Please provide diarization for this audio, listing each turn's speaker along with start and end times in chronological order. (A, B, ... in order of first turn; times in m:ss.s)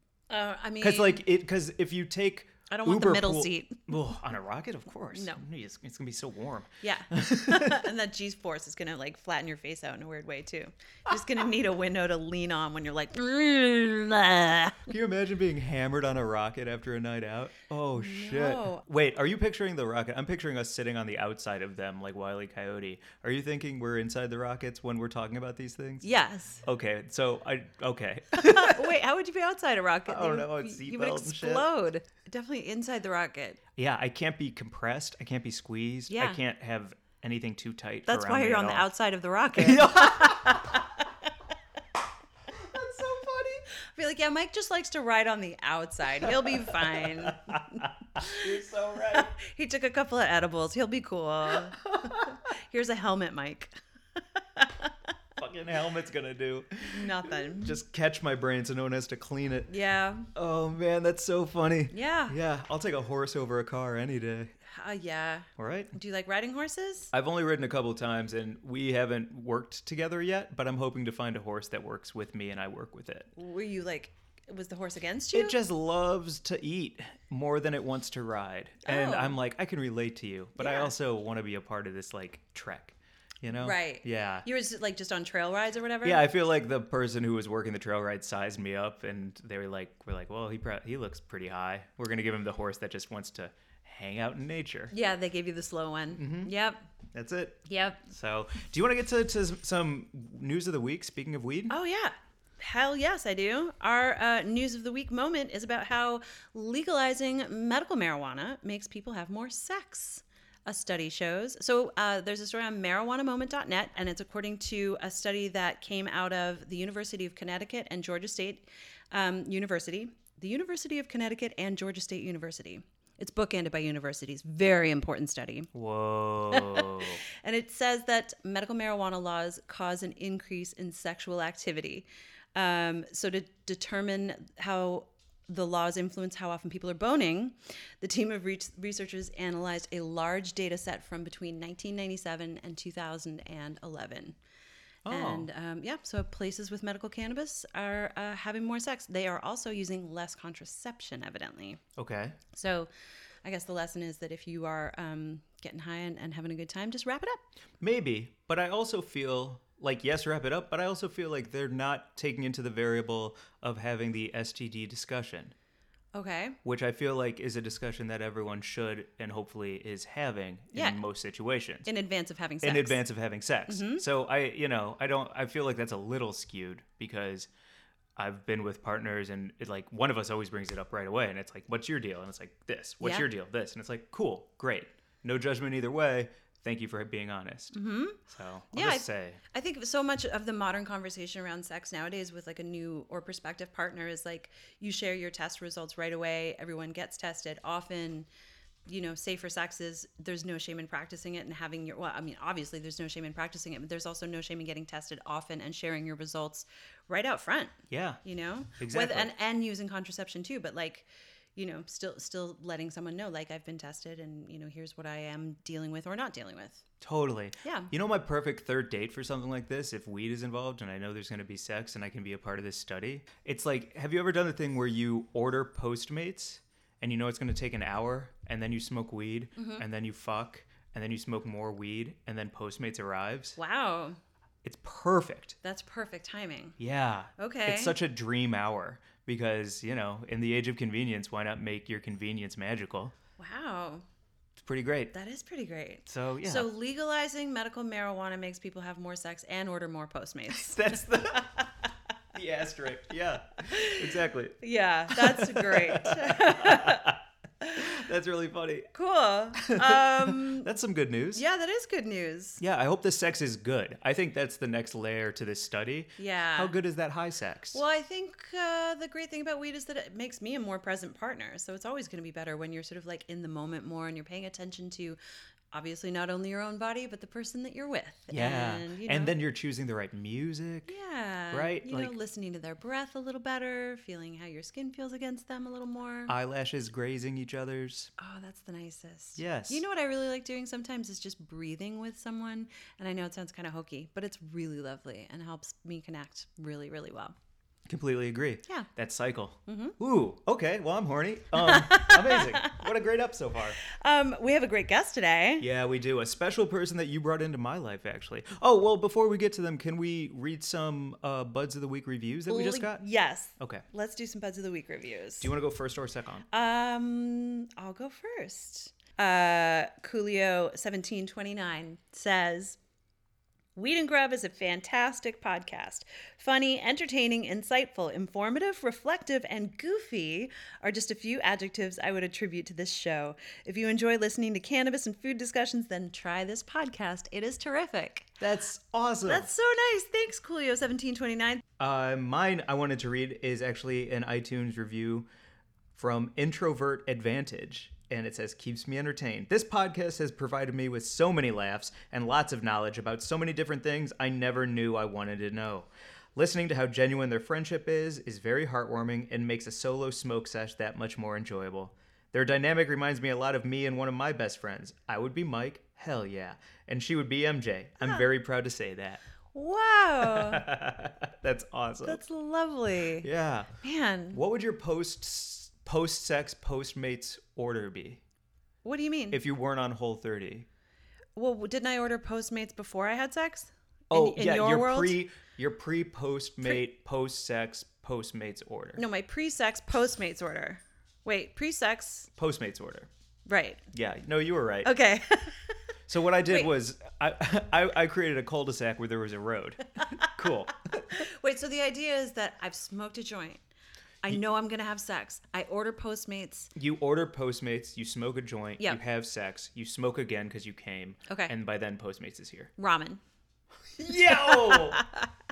0:00.3-0:01.2 A
0:00.8-0:07.9 B
0:02.7-0:03.9 A
0:05.1-0:05.4 A
0:06.8-0:14.9 A
0:11.1-0:11.4 B
0:14.9-0:29.0 B
0:17.9-0:18.8 A
0:26.0-0:26.6 A
0:28.4-0:33.6 A
0:30.1-0:31.7 B
0:33.8-0:38.9 B
0:36.1-0:36.4 A
0:38.1-0:40.8 A
0:39.6-0:40.9 B
0:42.5-0:43.6 B
0:44.0-0:48.5 A
0:46.2-0:49.3 B
0:49.1-0:55.0 A
0:51.5-0:52.4 B
0:55.4-0:59.7 B
0:56.8-0:57.8 A
0:59.7-1:00.3 A
1:00.3-1:04.5 B
1:01.9-1:02.4 A
1:04.6-1:07.1 A
1:05.6-1:05.9 B
1:07.1-1:13.3 B
1:13.4-1:15.6 A
1:15.3-1:24.5 B
1:18.8-1:19.4 A
1:20.6-1:20.9 A
1:23.5-1:26.2 A
1:26.0-1:34.9 B
1:34.9-1:36.9 A
1:36.2-1:36.5 B
1:37.1-1:41.7 B
1:37.7-1:38.0 A
1:41.7-2:05.7 A
2:05.7-2:07.2 B
2:06.5-2:24.4 A
2:25.0-2:25.5 B
2:25.1-2:31.8 A
2:32.0-2:32.4 B
2:32.5-2:32.9 A
2:33.4-2:37.4 A
2:37.8-2:45.5 B
2:46.1-2:46.6 A
2:46.6-2:51.9 B
2:50.7-2:51.0 A
2:51.8-2:53.0 A
2:52.6-2:57.5 B
2:53.7-2:54.0 A
2:58.2-3:09.4 B
3:03.0-3:03.3 A
3:07.7-3:08.2 A
3:08.7-3:18.3 A
3:18.9-3:36.8 A
3:27.9-3:28.2 B
3:28.8-3:29.3 B
3:37.0-3:53.6 B
3:37.6-3:37.9 A
3:49.6-3:49.8 A
3:53.6-3:54.2 A
3:54.6-3:55.6 B
3:55.6-3:56.8 A
3:56.8-4:03.1 B
3:57.4-3:58.0 A
4:03.4-4:04.0 A
4:04.6-4:05.1 B
4:05.1-4:11.6 A
4:06.1-4:06.7 B
4:10.5-4:11.7 B
4:12.3-4:14.6 B
4:13.6-4:17.9 A
4:15.1-4:17.2 B
4:17.8-4:18.9 B
4:18.9-4:20.7 A
4:19.6-4:21.4 B
4:21.3-4:22.6 A
4:22.6-4:27.8 B
4:26.2-4:26.7 A
4:27.7-4:35.2 A
4:35.7-4:39.4 A
4:38.3-4:40.9 B
4:40.9-4:46.3 A
4:41.5-4:42.1 B
4:46.3-4:48.1 B
4:48.2-4:57.4 A
4:49.4-4:49.8 B
4:57.9-5:03.8 B
4:59.7-5:00.0 A
5:01.6-5:02.8 A
5:03.8-5:05.7 A
5:05.6-5:13.0 B
5:12.5-5:15.5 A
5:13.6-5:13.8 B
5:15.4-5:16.5 B
5:16.5-5:22.8 A
5:23.8-5:38.4 A
5:38.4-5:39.5 B
5:39.3-5:41.6 A
5:41.8-5:45.3 B
5:46.0-6:09.2 B
6:09.5-6:10.6 A
6:10.2-6:12.2 B
6:12.0-6:13.3 A
6:13.2-6:13.7 B
6:13.8-6:14.4 A
6:14.3-6:18.2 B
6:18.8-6:19.4 A
6:19.3-6:20.7 B
6:21.4-6:25.2 A
6:24.1-6:29.0 B
6:29.0-6:32.3 A
6:32.4-6:33.1 B
6:33.5-6:33.8 A
6:33.9-6:34.9 B
6:34.8-6:35.8 A
6:36.1-6:41.0 B
6:40.9-6:43.6 A
6:44.2-6:46.7 A
6:46.8-6:52.7 B
6:51.3-6:51.5 A
6:52.8-6:53.2 A
6:54.0-6:55.0 B
6:54.3-6:55.3 A